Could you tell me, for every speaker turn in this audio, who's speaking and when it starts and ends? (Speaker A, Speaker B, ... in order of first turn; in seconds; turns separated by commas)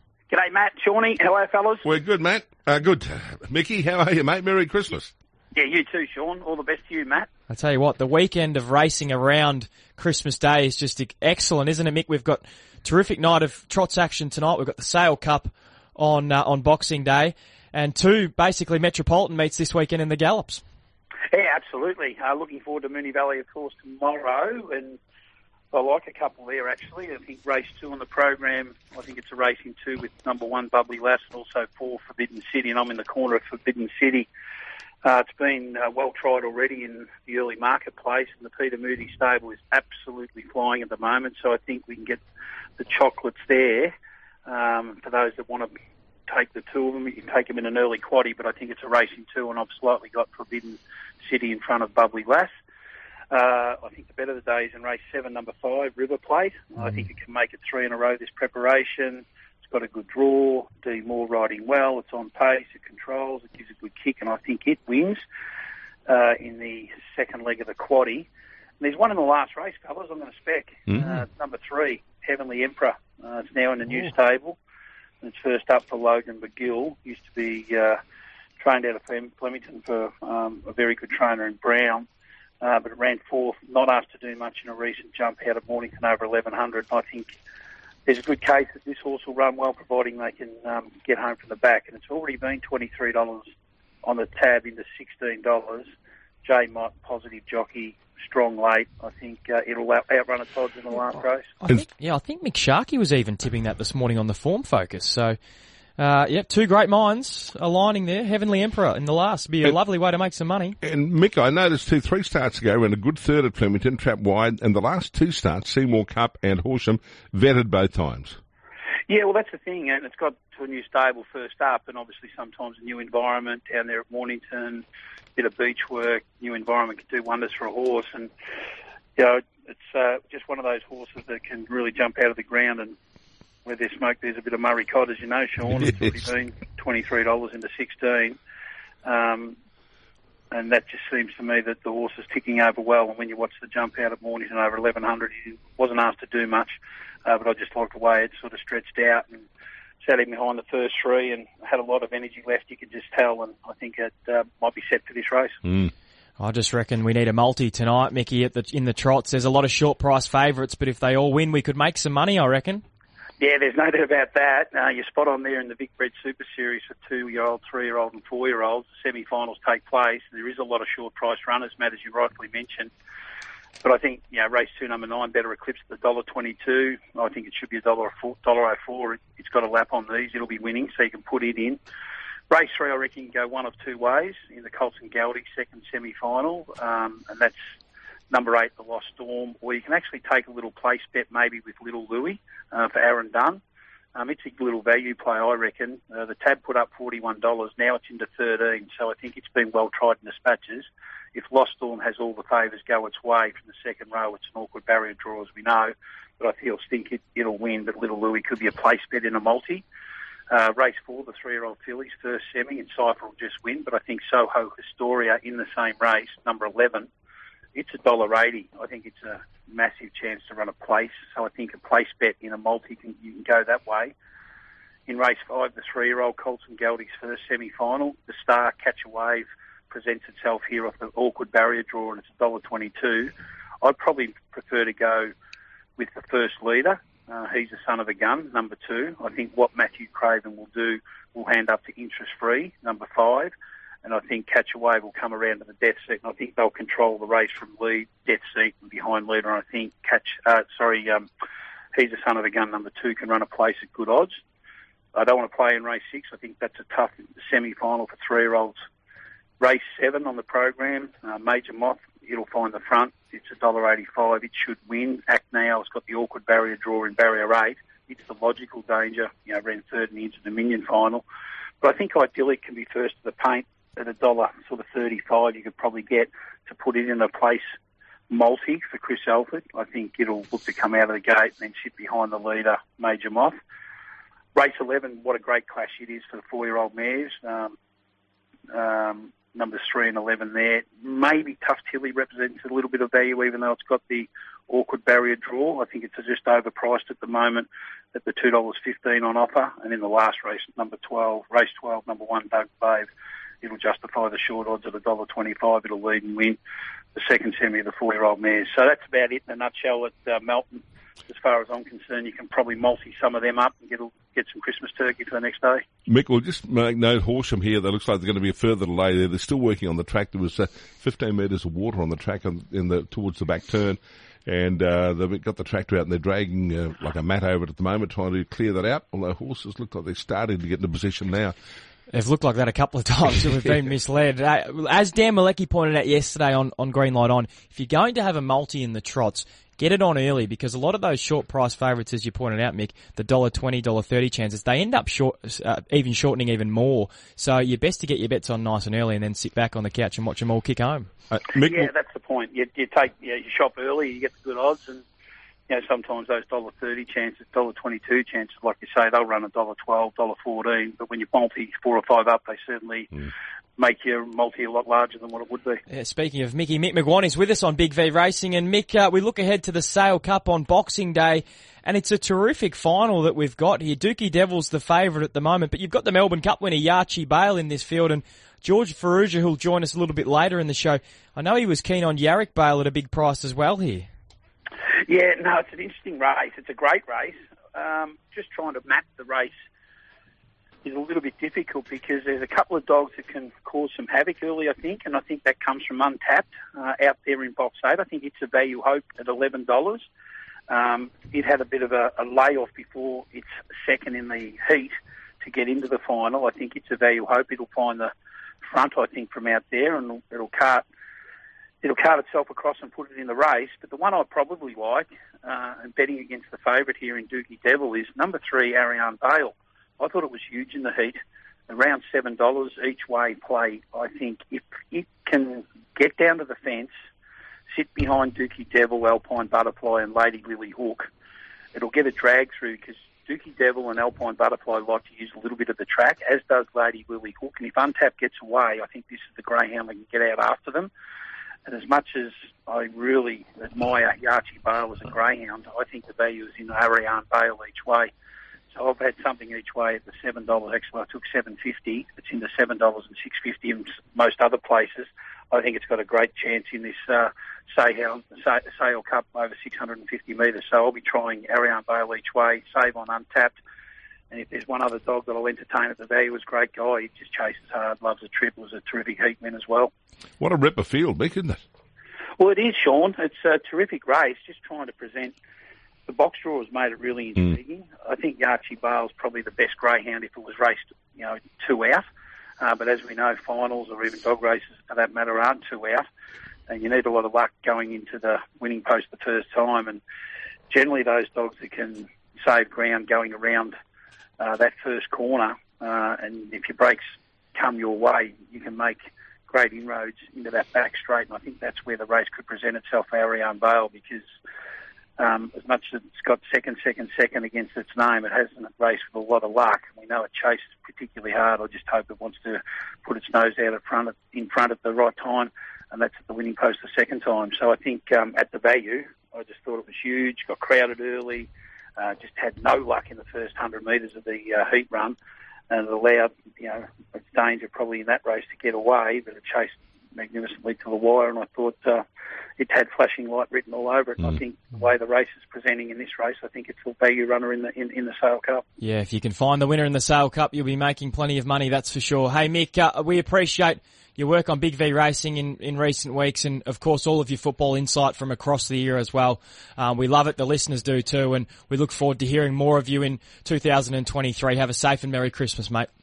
Speaker A: 0.3-1.9, Speaker B: 1.8-5.1, Speaker A: 5.5-7.3, Speaker C: 7.5-20.6, Speaker A: 21.3-25.0, Speaker A: 25.7-34.3, Speaker A: 35.0-42.2, Speaker A: 42.8-43.9, Speaker A: 44.5-45.7, Speaker A: 46.3-52.5, Speaker A: 53.3-65.2, Speaker A: 66.1-68.3, Speaker A: 68.8-74.6, Speaker B: 70.9-71.2, Speaker A: 75.2-78.0, Speaker A: 78.6-82.0, Speaker A: 82.6-87.3, Speaker A: 88.0-93.4, Speaker A: 94.0-95.9, Speaker A: 96.4-101.5, Speaker C: 101.6-105.4, Speaker C: 106.0-110.8, Speaker B: 110.8-118.4, Speaker A: 119.1-124.8, Speaker A: 125.3-128.3, Speaker A: 129.2-132.9, Speaker A: 133.6-138.4, Speaker A: 139.0-139.6, Speaker A: 140.5-149.4, Speaker A: 150.0-155.6, Speaker C: 156.4-162.8, Speaker A: 163.4-172.9, Speaker A: 173.8-181.8, Speaker A: 182.5-187.6, Speaker A: 188.3-193.6, Speaker A: 194.1-209.8, Speaker A: 210.5-217.1, Speaker A: 217.7-224.1, Speaker A: 225.1-235.3, Speaker A: 236.0-243.5, Speaker A: 244.0-251.3, Speaker A: 251.9-254.4, Speaker A: 255.1-258.8, Speaker A: 259.6-271.2, Speaker A: 271.8-277.6, Speaker A: 278.3-283.6, Speaker A: 284.5-287.7, Speaker A: 288.7-303.1, Speaker A: 303.6-306.6, Speaker A: 307.1-315.8, Speaker B: 316.1-331.5, Speaker C: 332.1-351.1, Speaker B: 351.3-351.9, Speaker A: 351.6-355.0, Speaker A: 355.7-365.8, Speaker C: 365.9-384.1, Speaker A: 385.1-389.5, Speaker A: 390.8-400.1, Speaker A: 400.7-408.1, Speaker A: 408.6-410.8, Speaker A: 411.8-426.9, Speaker A: 427.7-431.1, Speaker A: 431.7-440.9, Speaker A: 441.6-448.1, Speaker A: 448.7-463.6, Speaker A: 464.3-469.9, Speaker B: 470.4-471.6, Speaker A: 472.4-475.3, Speaker A: 476.1-482.0, Speaker A: 482.6-486.1, Speaker A: 486.7-490.0, Speaker A: 490.7-493.7, Speaker A: 494.4-497.0, Speaker A: 497.5-504.2, Speaker A: 505.2-525.1, Speaker A: 525.7-532.0, Speaker A: 532.6-538.6, Speaker C: 538.8-555.9